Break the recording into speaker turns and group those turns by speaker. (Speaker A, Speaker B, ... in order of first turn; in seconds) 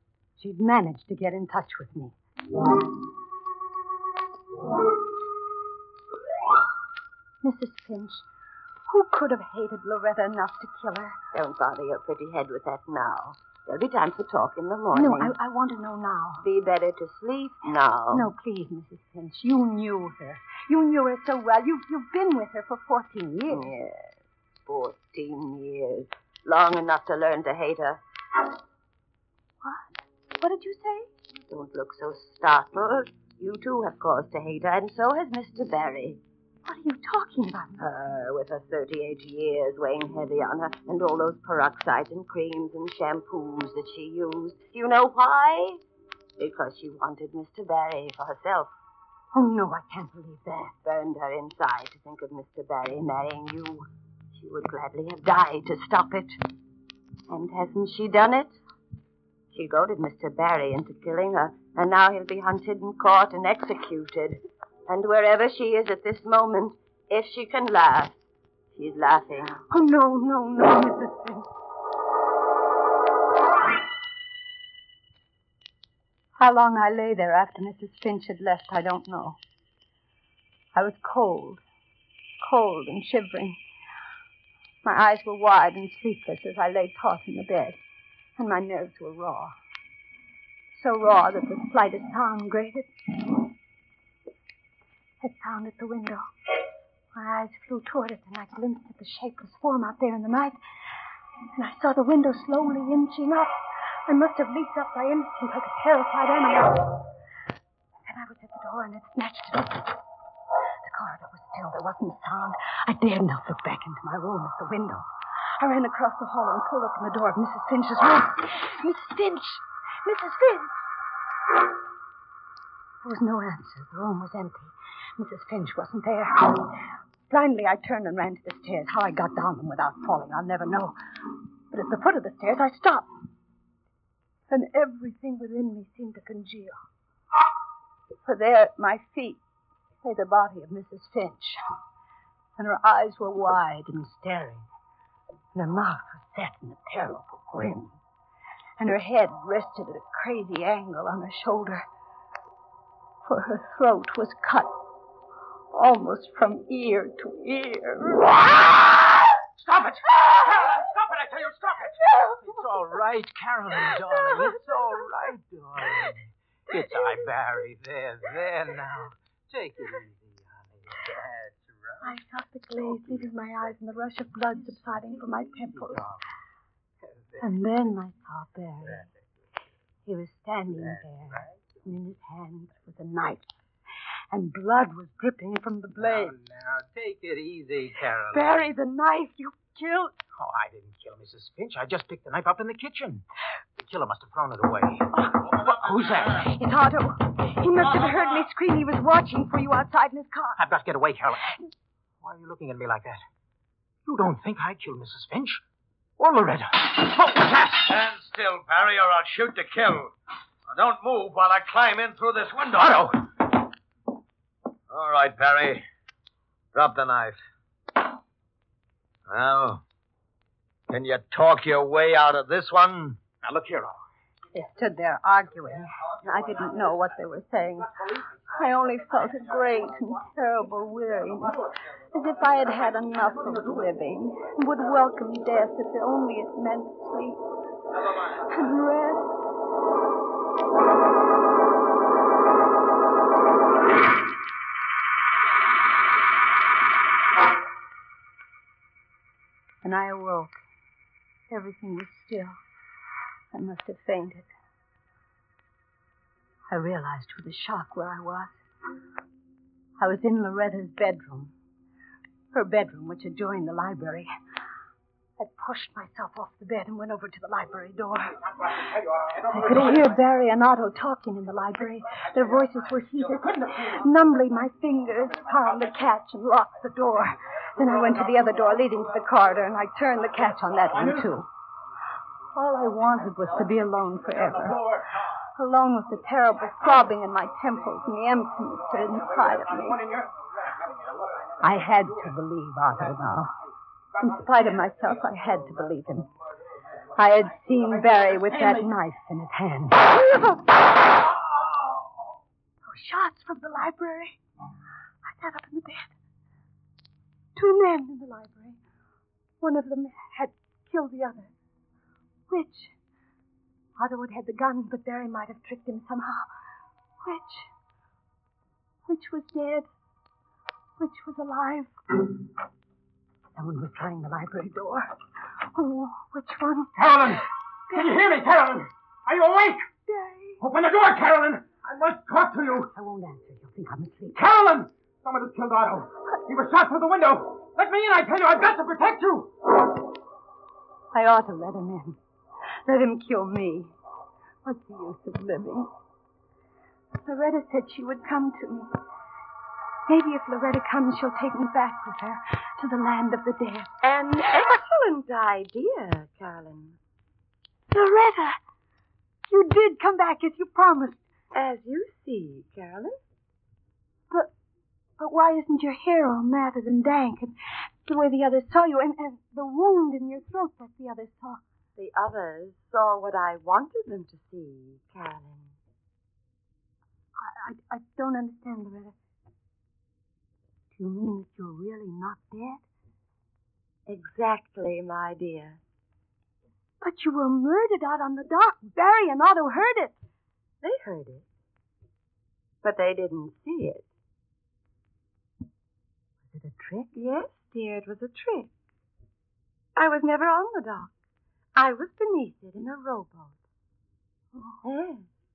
Speaker A: 0.4-2.2, 7.4-8.2, 8.9-11.2, 14.9-16.4, 18.1-23.7, 29.6-31.1, 36.6-37.8, 49.3-50.7, 69.7-71.5, 76.4-79.4, 80.8-81.6, 82.4-83.6, 84.8-87.8, 88.4-89.5, 90.7-92.9, 95.2-96.2, 97.1-100.6, 101.6-103.5, 104.1-107.0, 108.1-110.0, 110.8-115.1, 115.6-120.8, 123.0-126.7, 127.3-130.9, 131.7-133.1, 134.5-136.8, 138.2-139.4, 140.0-141.6, 142.6-144.7, 145.6-148.0, 148.8-151.8, 153.3-154.7, 155.7-158.4, 162.0-162.4, 172.0-176.0, 177.4-179.1, 180.1-183.6, 184.3-186.3, 188.3-190.2, 196.3-200.6, 224.5-237.4, 238.4-239.4, 249.8-250.6, 251.5-252.6, 253.5-254.5, 256.7-258.6, 260.0-261.5, 262.5-264.3, 265.4-268.3, 269.4-281.5, 282.6-284.9, 285.6-290.1, 291.6-293.5, 294.2-296.3, 297.1-300.7, 302.9-304.4, 305.2-306.1, 307.6-308.8, 309.6-311.5, 312.5-312.9, 314.0-316.5, 317.2-317.7, 319.1-319.9, 321.0-321.9, 323.6-326.9, 330.1-330.6, 332.9-334.4, 341.1-342.2, 342.9-343.9, 344.6-345.9, 347.2-348.9, 350.1-353.9, 357.9-358.6, 359.5-361.2, 365.2-367.5, 368.1-371.6, 377.4-379.1, 380.9-382.8, 387.0-390.2, 396.5-397.0, 404.5-404.8
Speaker B: 11.3-15.3, 16.4-18.3, 23.5-24.1, 24.7-28.0, 31.5-36.2, 37.8-45.8, 46.4-48.7, 50.7-56.4, 57.3-58.6, 59.5-68.2, 68.7-69.6, 354.0-357.0, 361.5-363.2, 372.0-375.7, 384.1-385.8, 390.8-391.5, 392.8-394.1, 397.0-398.7, 400.0-401.1, 401.8-403.6, 404.8-405.3
Speaker C: 159.6-172.2, 172.8-173.3, 174.5-176.2, 177.0-177.5, 180.8-181.7, 186.0-188.7, 190.4-193.2, 193.8-196.5, 200.6-201.5, 202.2-203.2, 204.1-205.6, 206.2-207.9, 212.7-213.1, 223.4-224.0, 268.5-270.1, 273.4-274.0, 290.0-290.4, 327.0-329.9, 330.6-332.9, 334.3-339.5
Speaker D: 207.8-210.1, 210.7-213.2, 214.9-215.8, 216.7-217.4, 219.3-219.8, 220.9-223.2